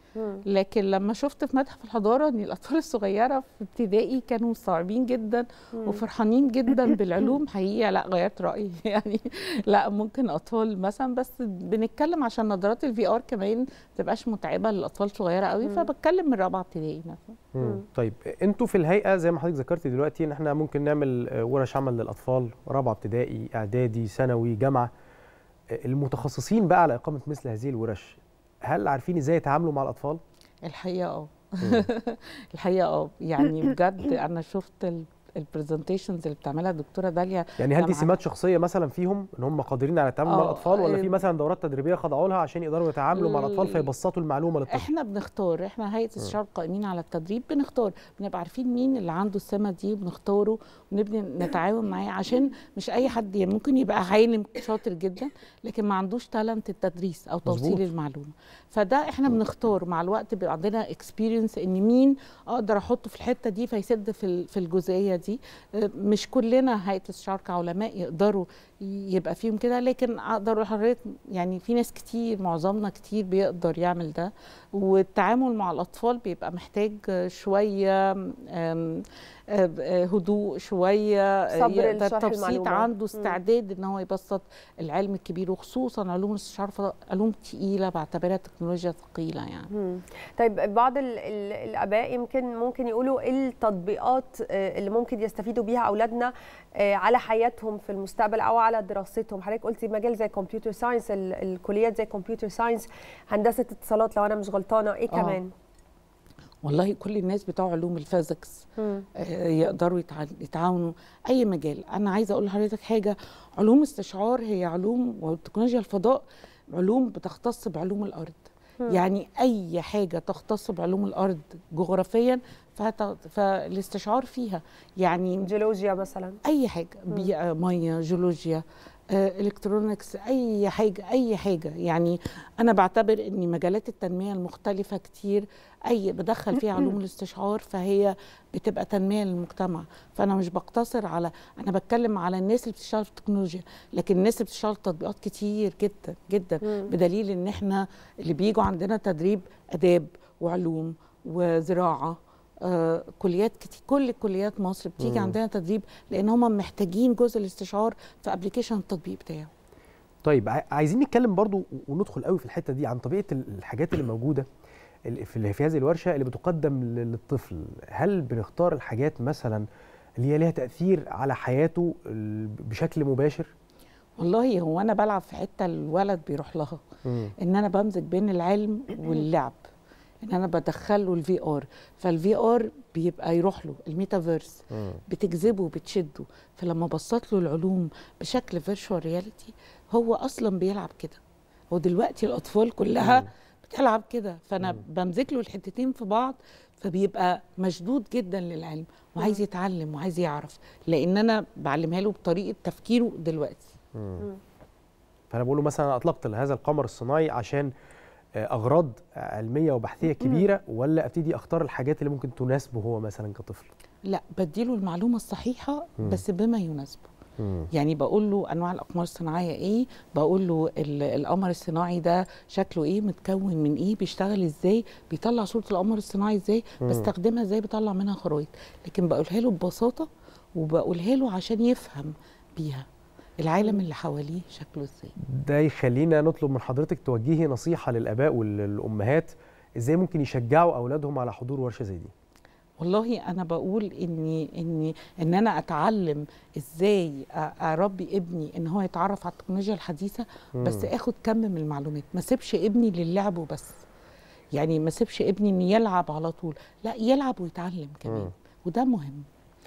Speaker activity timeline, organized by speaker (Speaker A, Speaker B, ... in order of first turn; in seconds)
Speaker A: 0.1-0.4, 81.5-83.4, 89.7-105.5, 108.8-109.0, 125.4-126.4, 146.6-146.9
Speaker B: 0.5-17.4, 30.6-38.1, 40.2-41.2, 43.1-43.9, 44.7-89.7, 105.1-105.4, 106.6-116.2, 116.7-125.5, 126.4-159.5, 174.2-176.8, 177.4-179.6, 180.2-191.2, 191.7-203.8, 214.0-217.1, 217.7-232.9, 233.4-235.1, 242.8-253.8, 254.5-259.2
Speaker C: 17.5-24.9, 25.7-30.2, 31.6-31.9, 37.6-44.9, 57.5-57.9, 155.0-155.4, 160.2-164.4, 165.1-169.6, 170.2-173.5, 177.0-177.3, 184.7-185.0, 193.0-193.3, 203.9-204.2, 205.3-207.7, 208.4-213.7, 217.4-217.7, 226.8-227.1, 235.3-242.1, 250.6-250.9, 258.1-258.3